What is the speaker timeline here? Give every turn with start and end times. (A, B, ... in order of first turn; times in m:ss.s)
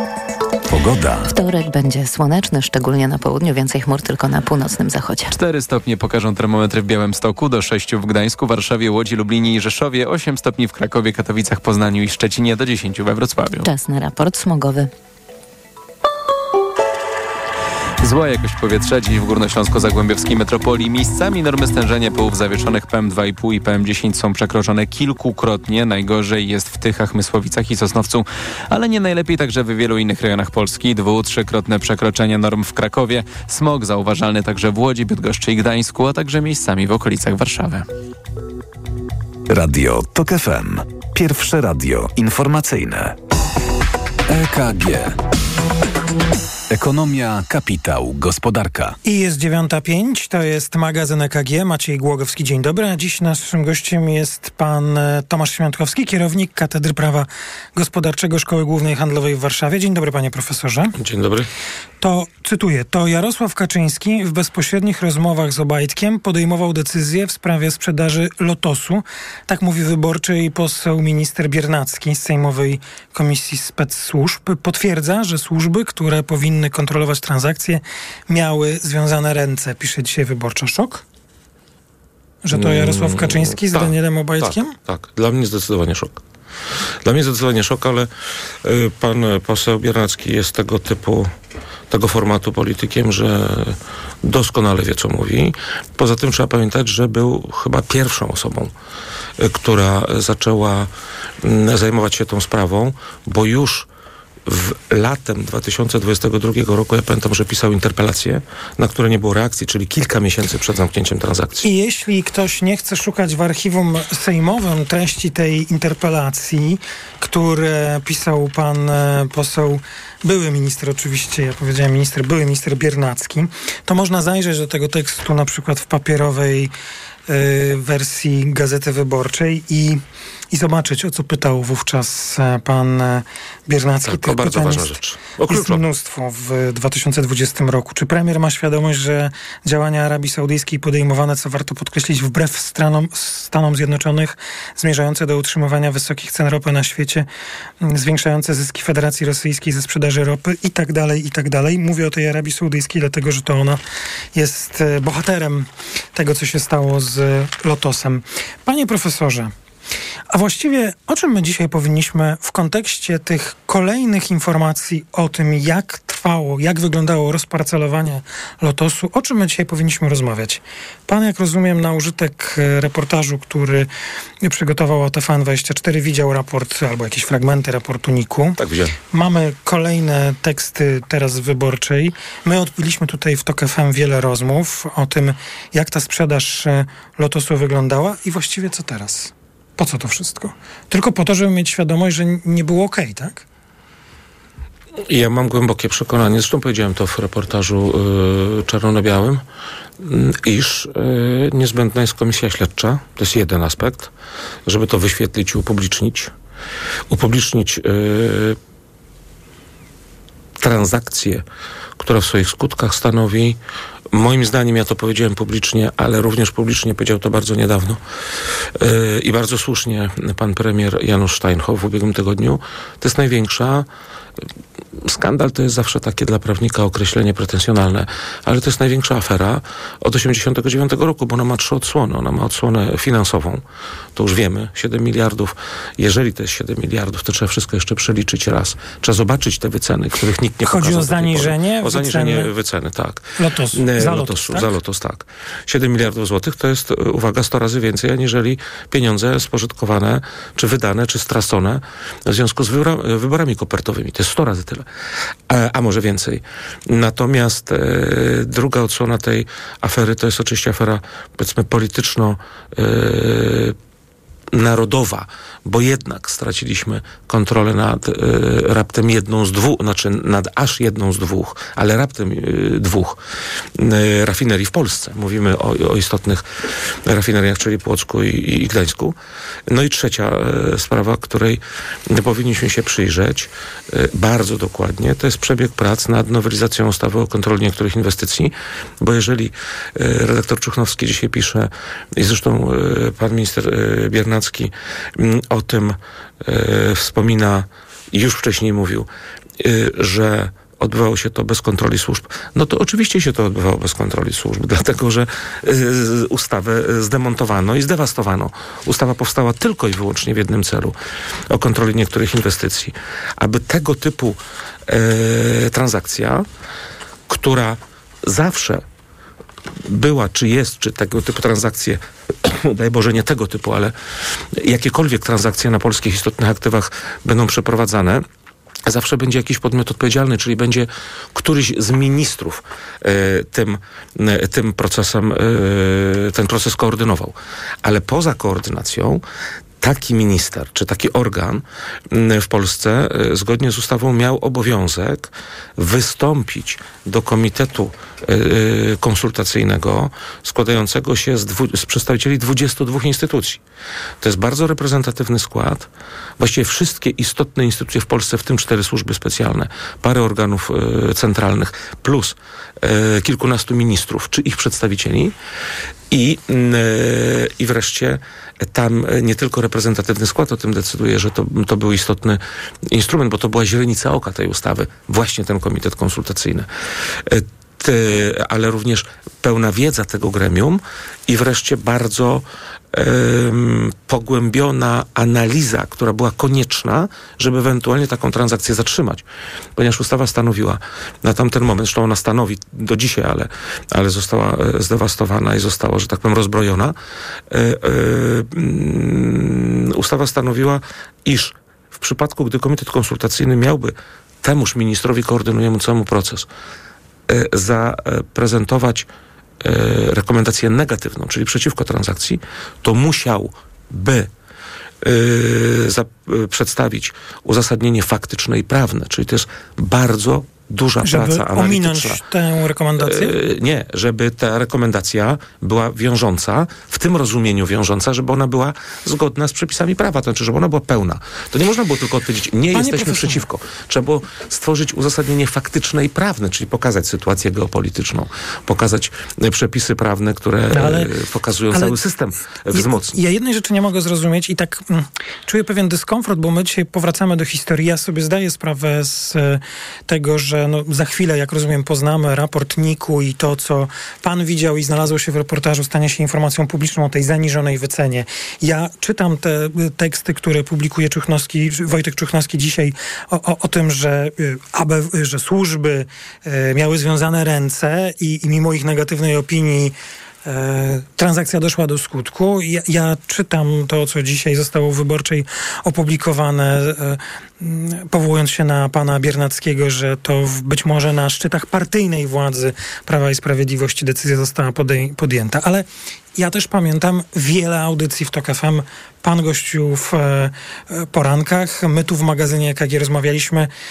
0:00.7-0:01.3 A
0:01.3-0:05.3 B
0:05.3-0:13.7 C
0:13.6-0:14.9 B
0:18.0-0:37.9 C
0:39.5-0:43.2 A
0:44.3-0:45.2 A
0:46.7-0:49.0 A
0:49.0-1:00.9 D
1:01.0-1:01.5 E
1:02.0-1:21.0 D
1:22.4-1:24.7 D
1:22.5-1:26.2 E
1:27.0-1:28.1 E
1:28.6-1:31.3 E
1:31.9-1:38.7 E
1:39.4-1:40.9 E
1:41.4-1:43.9 E
1:44.5-1:51.7 E
1:51.6-2:06.7 D
2:07.3-2:10.0 D
2:10.5-2:15.0 D
2:14.0-2:15.8 E
2:15.5-2:27.3 D
2:27.8-2:33.8 D
2:34.4-2:39.5 D
2:40.3-2:53.9 D
2:54.4-2:58.6 D
2:58.6-2:59.0 E
2:59.1-3:13.4 D
3:15.1-3:19.4 E
3:20.0-3:24.1 E
3:24.7-3:26.3 E
3:27.1-3:28.6 E
3:30.6-3:31.4 E
3:32.0-3:33.6 E
3:34.1-3:38.0 E
3:38.8-3:43.9 E
3:45.0-3:53.6 E
3:54.2-4:14.8 E
4:00.6-4:02.5 D
4:03.4-4:04.7 D
4:15.5-4:23.8 E
4:24.5-4:33.2 E
4:33.8-4:36.4 E
4:37.0-4:39.2 E
4:39.7-4:59.1 E
4:59.6-5:11.0 E
5:11.5-5:16.5 E
5:17.3-5:18.8 E
5:19.8-5:24.0 E
5:24.6-5:28.2 E
5:28.9-5:39.2 E
5:39.8-5:53.6 E
5:54.2-5:55.9 E
5:56.4-6:05.3 E
6:06.1-6:16.7 E
6:17.3-6:29.2 E
6:29.8-6:37.0 E
6:37.5-6:46.5 E
6:47.3-6:49.1 E
6:49.6-6:54.3 E
6:55.0-7:02.2 E
7:01.0-7:03.3 D
7:03.0-7:23.2 E
7:12.7-7:13.4 D
7:20.7-7:21.1 D
7:22.7-8:13.7 D